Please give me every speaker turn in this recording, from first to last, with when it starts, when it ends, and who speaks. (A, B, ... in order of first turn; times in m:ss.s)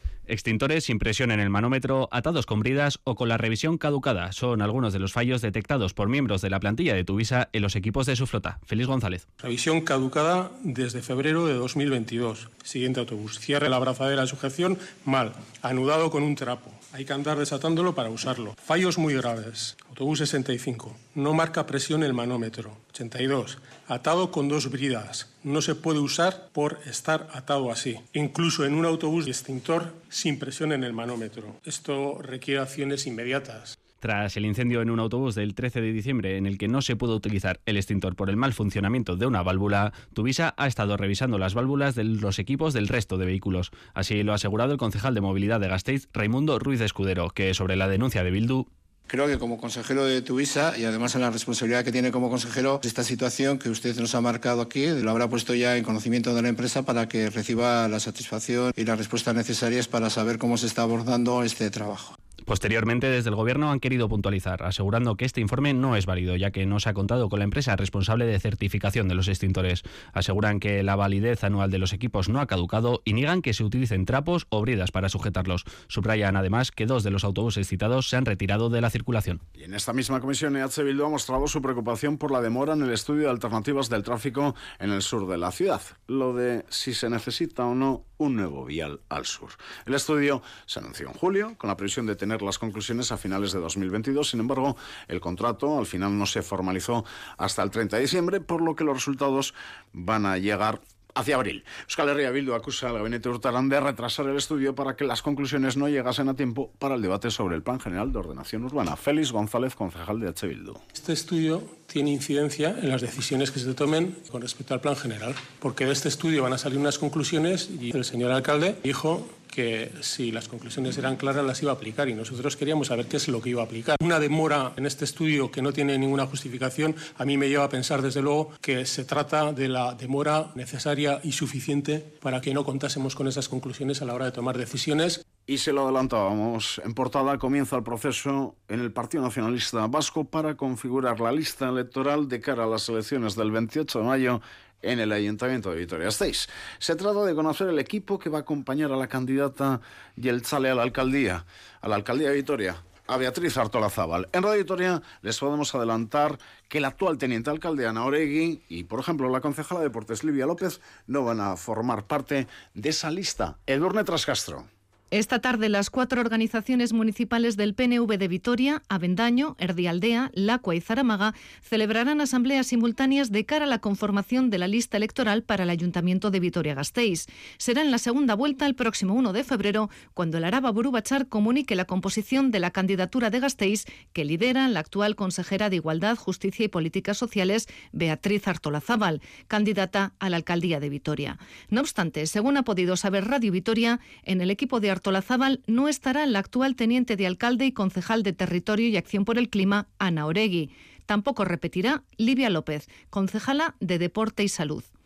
0:00.3-0:09.2 A
0:09.4-0:33.8 B
0:34.0-0:48.7 A
0:49.1-1:02.1 C
1:02.5-1:19.4 A
1:19.6-1:50.8 D
1:50.9-2:15.2 B
2:15.5-2:44.6 D
2:45.1-3:24.9 E